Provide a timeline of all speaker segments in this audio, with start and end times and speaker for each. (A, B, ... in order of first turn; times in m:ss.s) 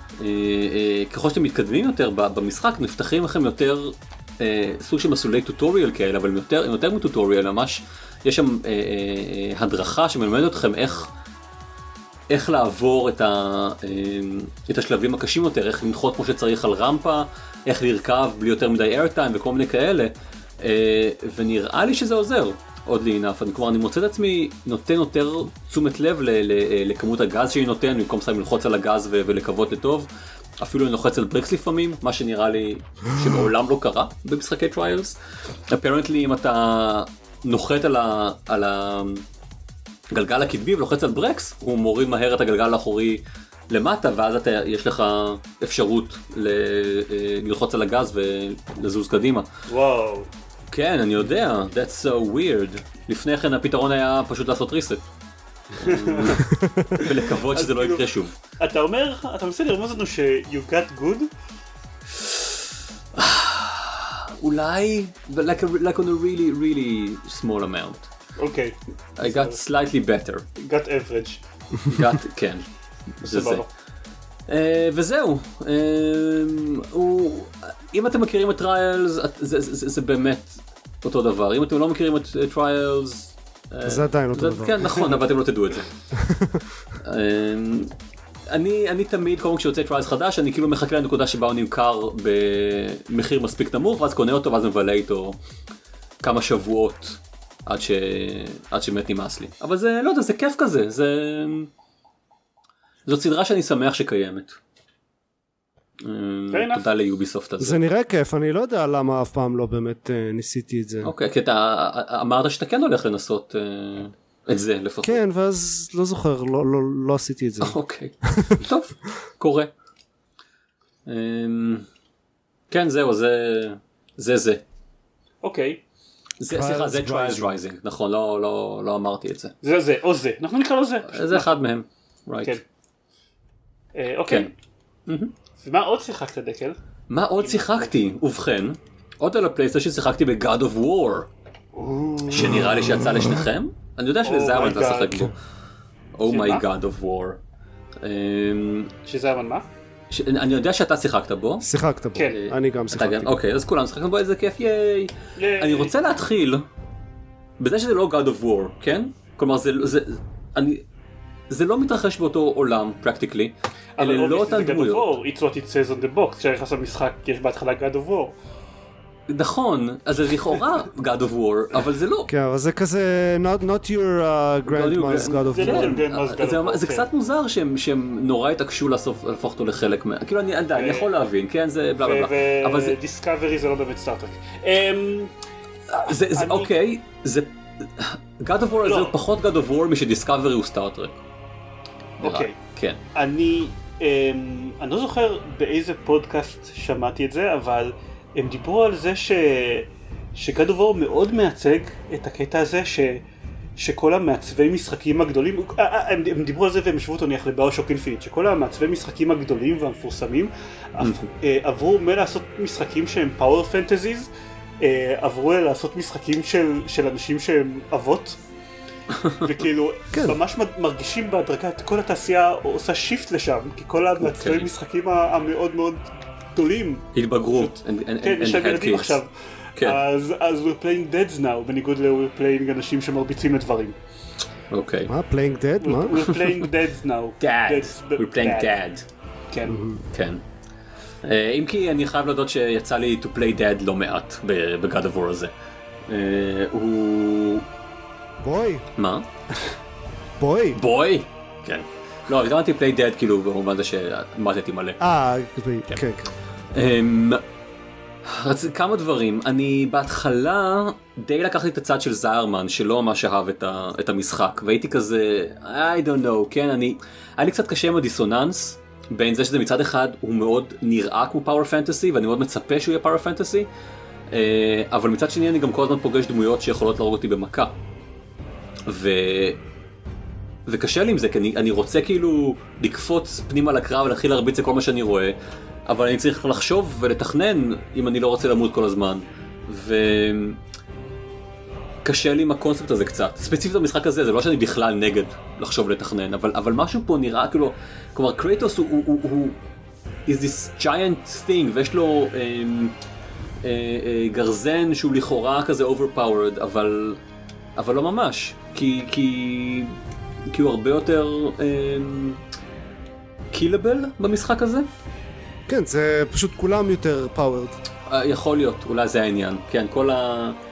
0:00.2-0:11.1 A
0:12.3-0:35.2 A
0:35.7-0:39.2 A
0:40.1-0:49.4 A
0:49.7-0:50.3 B
0:50.7-0:55.0 A
0:55.8-0:58.3 A
0:55.8-0:56.4 B
0:56.4-0:57.0 C
0:57.0-1:01.3 B
1:03.1-1:08.1 A
1:08.4-1:09.6 B
1:09.2-1:10.4 A
1:10.6-1:11.4 B
1:11.9-1:12.6 A
1:13.2-1:13.6 A
1:13.2-1:13.7 B
1:14.5-1:25.9 A
1:23.9-1:25.0 C
1:26.1-1:26.7 C
1:27.0-1:27.9 A
1:28.5-1:35.4 A
1:36.2-1:41.7 A
1:43.0-1:44.6 A
1:46.0-1:47.8 A
1:46.5-1:46.9 B
1:47.6-1:51.1 C
1:51.0-1:55.2 A
1:55.0-1:58.6 C
1:57.6-1:59.7 A
2:01.0-2:01.9 A
2:02.7-2:04.6 A
2:05.4-2:05.8 B
2:06.4-2:09.5 A
2:06.5-2:07.6 C
2:09.6-2:11.6 B
2:11.0-2:12.6 A
2:14.0-2:14.5 B
2:15.1-2:15.3 A
2:15.6-2:16.8 B
2:17.1-2:21.3 A
2:17.4-2:17.9 B
2:21.7-2:22.6 B
2:22.3-2:25.3 A
2:24.2-2:25.3 B
2:26.2-2:27.4 A
2:26.3-2:26.6 B
2:28.0-2:29.0 A
2:29.0-2:29.6 B
2:30.1-2:31.7 A
2:31.6-2:33.3 C
2:32.3-2:36.7 A
2:35.4-2:35.9 B
2:37.6-2:40.8 A
2:41.5-2:45.1 A
2:44.0-2:48.3 B
2:49.3-2:52.3 A
2:52.3-2:56.0 C
2:54.7-3:03.0 A
2:55.5-2:57.1 B
3:00.7-3:01.1 B
3:02.0-3:05.3 B
3:05.9-3:11.2 A
3:06.0-3:06.7 B
3:08.8-3:09.2 B
3:12.2-3:13.0 A
3:12.2-3:12.6 B
3:13.1-3:23.2 B
3:23.8-3:34.3 B
3:31.0-3:31.3 A
3:34.8-3:38.4 B
3:39.1-3:39.5 A
3:39.4-3:54.0 B
3:40.1-3:40.4 C
3:44.2-3:44.7 A
3:47.1-3:49.2 A
3:49.8-3:50.0 A
3:54.7-3:55.1 A
3:55.1-3:56.3 C
3:55.8-3:58.8 B
3:57.4-3:59.0 A
3:59.5-3:59.8 B
3:59.7-4:00.0 C
4:00.1-4:00.4 A
4:01.2-4:05.5 A
4:06.1-4:07.7 A
4:08.4-4:08.8 C
4:09.0-4:09.3 A
4:10.4-4:10.8 C
4:10.8-4:15.0 A
4:15.0-4:16.3 C
4:16.7-4:17.4 A
4:18.2-4:33.7 A
4:34.3-4:37.7 A
4:38.9-4:39.6 A
4:40.7-4:45.4 A
4:45.9-4:50.6 A
4:52.0-4:59.6 A
5:00.3-5:03.0 A
5:03.6-5:07.2 A
5:07.8-5:10.0 A
5:10.5-5:12.4 A
5:13.5-5:14.9 A
5:15.7-5:17.8 C
5:18.1-5:20.6 A